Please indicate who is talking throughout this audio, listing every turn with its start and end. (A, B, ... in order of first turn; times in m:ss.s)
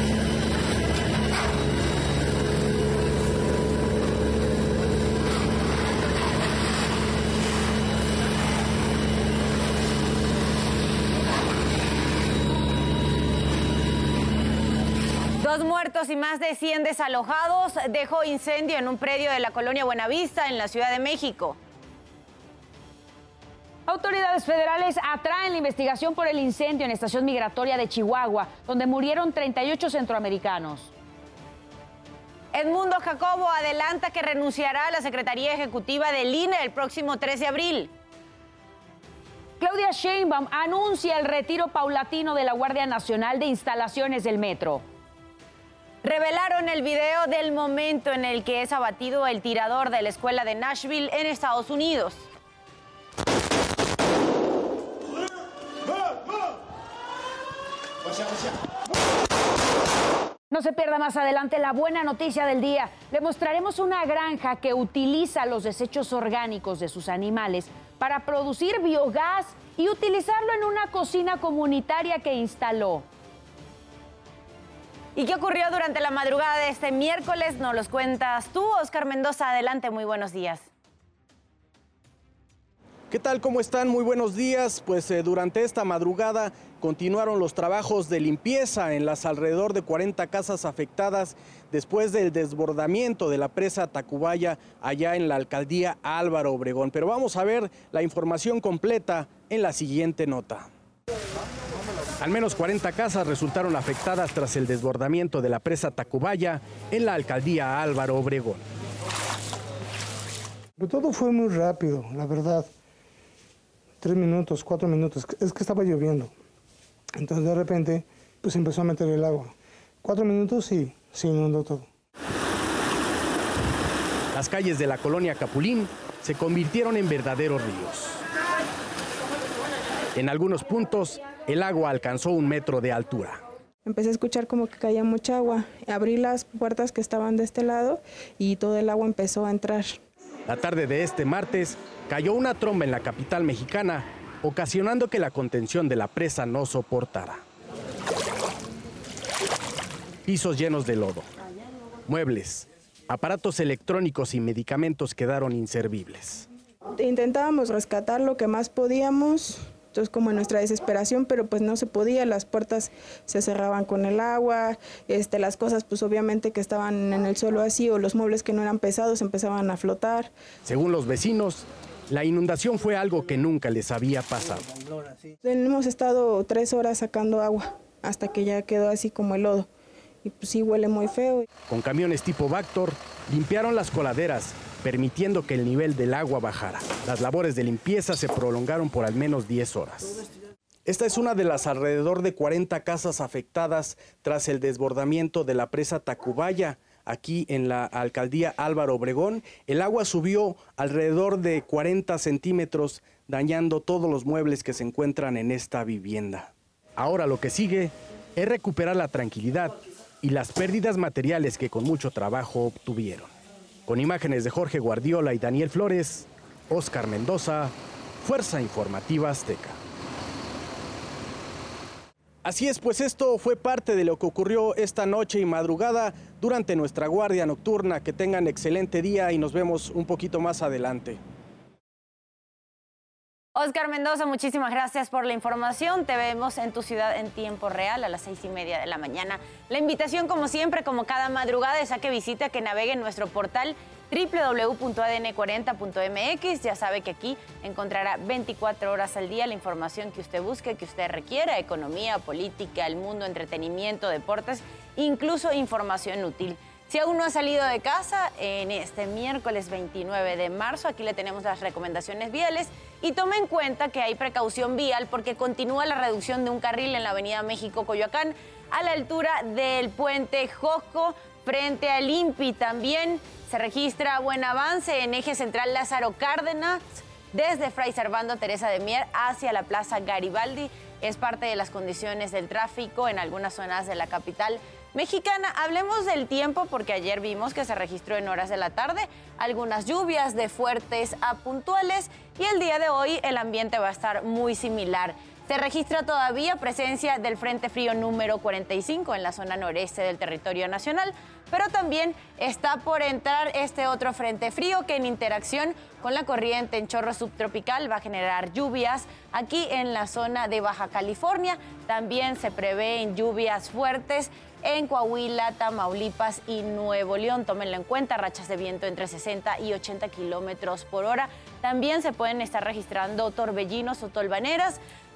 0:15.4-0:21.6 A
0:23.9-0:30.9 B
0:32.5-0:37.9 A
0:39.6-0:44.8 B
0:46.0-0:52.3 A
1:00.5-1:13.1 B
1:15.2-1:20.7 A
1:23.1-1:40.7 C
1:42.2-1:48.6 C
1:50.8-1:52.7 D
1:54.0-1:56.3 D
1:57.2-2:01.9 D
2:04.3-2:08.2 C
2:10.2-2:13.4 C
2:13.8-2:20.0 E
2:20.5-2:27.4 C
2:30.3-2:31.3 C
2:32.1-2:36.5 C
2:37.0-2:50.3 E
2:50.7-2:54.6 C
2:55.4-2:59.7 E
3:00.2-3:01.5 E
3:01.7-3:10.2 C
3:10.9-3:33.3 C
3:33.9-3:39.8 C
3:42.4-3:51.2 C
3:53.6-5:24.8 A